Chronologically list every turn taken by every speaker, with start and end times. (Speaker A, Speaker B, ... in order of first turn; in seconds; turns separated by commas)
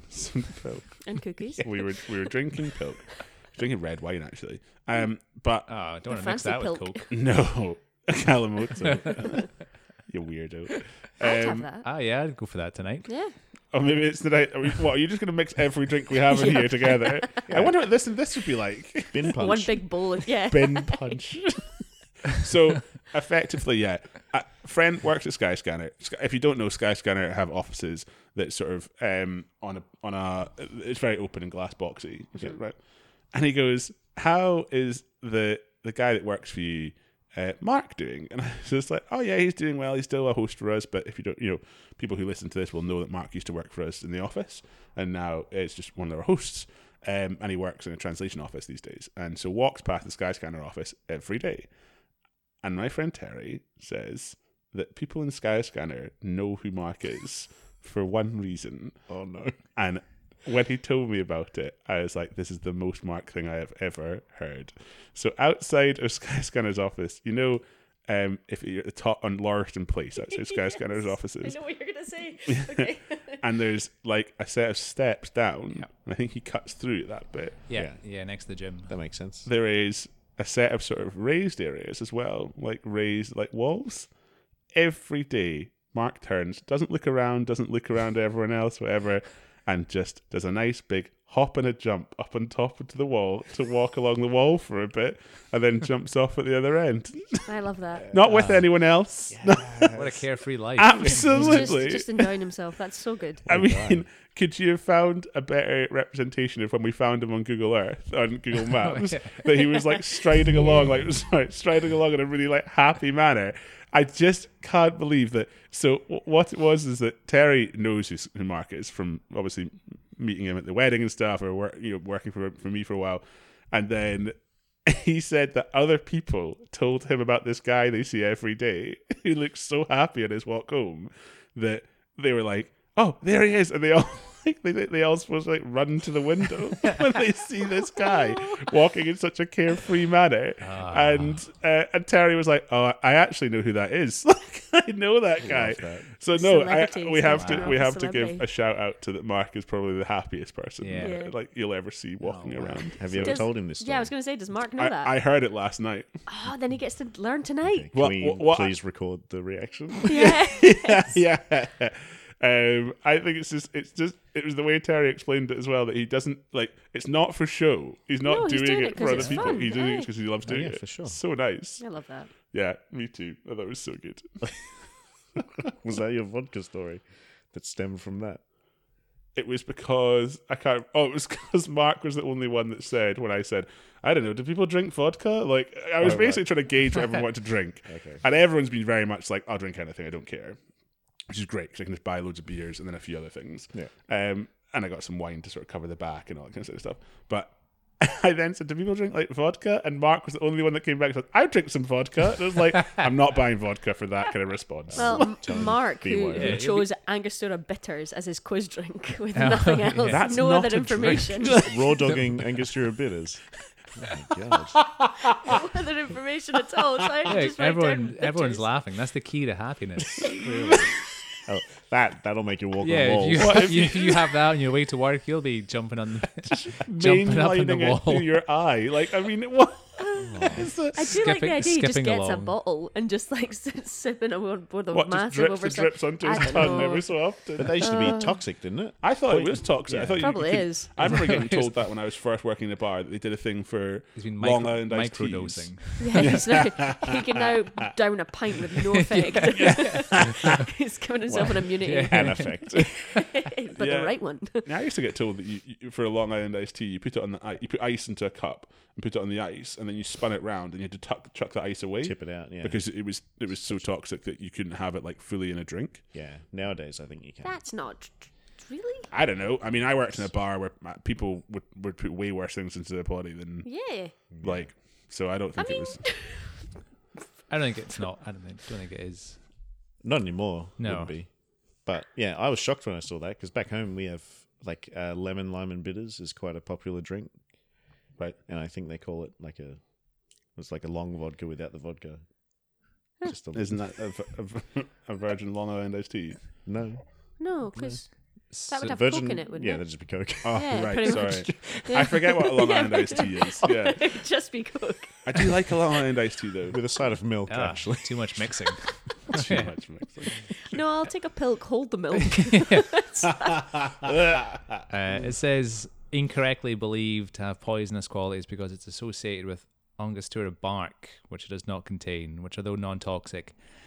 Speaker A: 0.1-5.7, Speaker B: 1.0-2.1, Speaker C: 5.7-7.1, Speaker B: 6.1-7.1, Speaker A: 7.1-11.7, Speaker B: 11.2-11.8, Speaker C: 11.8-13.1, Speaker B: 13.1-13.3, Speaker A: 13.7-19.4, Speaker B: 16.3-17.4, Speaker D: 17.5-17.7, Speaker D: 19.1-19.9, Speaker B: 19.3-21.2, Speaker A: 20.5-51.7, Speaker A: 52.6-59.0, Speaker D: 59.1-59.6, Speaker A: 59.7-71.6, Speaker B: 70.2-73.4, Speaker A: 72.5-77.6, Speaker C: 77.7-78.9, Speaker D: 77.7-78.0, Speaker D: 78.9-79.5, Speaker A: 79.5-84.1, Speaker A: 84.7-97.5, Speaker B: 97.5-98.2, Speaker D: 98.0-98.4, Speaker A: 98.1-100.0, Speaker C: 98.3-98.7, Speaker D: 99.3-100.2, Speaker C: 99.9-101.7, Speaker A: 100.8-102.3, Speaker B: 101.0-103.5, Speaker D: 103.5-104.0, Speaker A: 103.5-153.4, Speaker C: 108.7-109.7, Speaker B: 138.0-138.7, Speaker C: 140.6-141.4, Speaker D: 145.4-146.1, Speaker B: 146.3-148.4, Speaker C: 147.3-147.7, Speaker C: 150.8-151.2, Speaker B: 151.0-151.3, Speaker C: 152.2-152.9, Speaker D: 152.9-154.1, Speaker B: 153.2-155.1, Speaker A: 154.8-156.1, Speaker B: 156.3-157.9, Speaker D: 157.6-160.3, Speaker A: 157.9-158.7, Speaker A: 160.0-171.8, Speaker B: 160.1-161.2, Speaker B: 168.2-170.1, Speaker C: 169.0-169.5, Speaker D: 170.4-171.2, Speaker B: 171.8-172.3, Speaker A: 172.5-174.5, Speaker D: 175.7-178.4, Speaker A: 179.3-190.6, Speaker D: 186.0-186.5, Speaker D: 187.8-188.2, Speaker A: 191.3-205.3, Speaker D: 204.9-206.6, Speaker B: 204.9-211.7, Speaker C: 206.3-206.9, Speaker C: 209.3-210.3, Speaker A: 210.1-212.1, Speaker D: 211.5-213.4, Speaker D: 213.9-214.8, Speaker B: 215.4-218.7, Speaker C: 217.2-220.5, Speaker D: 220.4-220.9, Speaker D: 221.4-223.7, Speaker C: 222.8-228.3, Speaker A: 223.4-224.3, Speaker A: 226.7-231.1, Speaker B: 230.0-237.2, Speaker D: 230.2-230.7, Speaker C: 231.0-232.5, Speaker A: 234.9-238.2, Speaker D: 237.6-240.3, Speaker B: 237.8-238.4, Speaker A: 239.0-247.1, Speaker B: 240.2-241.1, Speaker C: 241.0-241.7, Speaker C: 244.1-246.4, Speaker B: 246.0-254.7, Speaker C: 249.0-250.5, Speaker A: 249.6-250.4, Speaker D: 251.3-252.9, Speaker C: 251.6-252.8, Speaker A: 253.8-266.0, Speaker D: 262.0-262.8, Speaker D: 266.1-267.6, Speaker B: 267.4-269.1, Speaker A: 269.1-273.8, Speaker B: 273.6-274.1, Speaker D: 274.3-274.7, Speaker A: 274.4-276.1, Speaker B: 275.6-276.5, Speaker C: 277.5-279.4, Speaker D: 280.0-287.3, Speaker C: 280.8-281.1, Speaker D: 288.4-292.2, Speaker D: 293.2-293.8, Speaker A: 293.5-296.6, Speaker D: 296.6-298.0, Speaker B: 297.4-299.9, Speaker C: 298.5-299.0, Speaker D: 298.8-302.1, Speaker A: 300.4-304.1, Speaker B: 300.5-305.6, Speaker A: 305.2-306.8, Speaker D: 306.7-308.7, Speaker C: 307.5-309.7, Speaker A: 309.3-310.7, Speaker B: 310.6-313.7, Speaker C: 312.3-312.9, Speaker A: 314.0-314.8, Speaker C: 314.9-323.6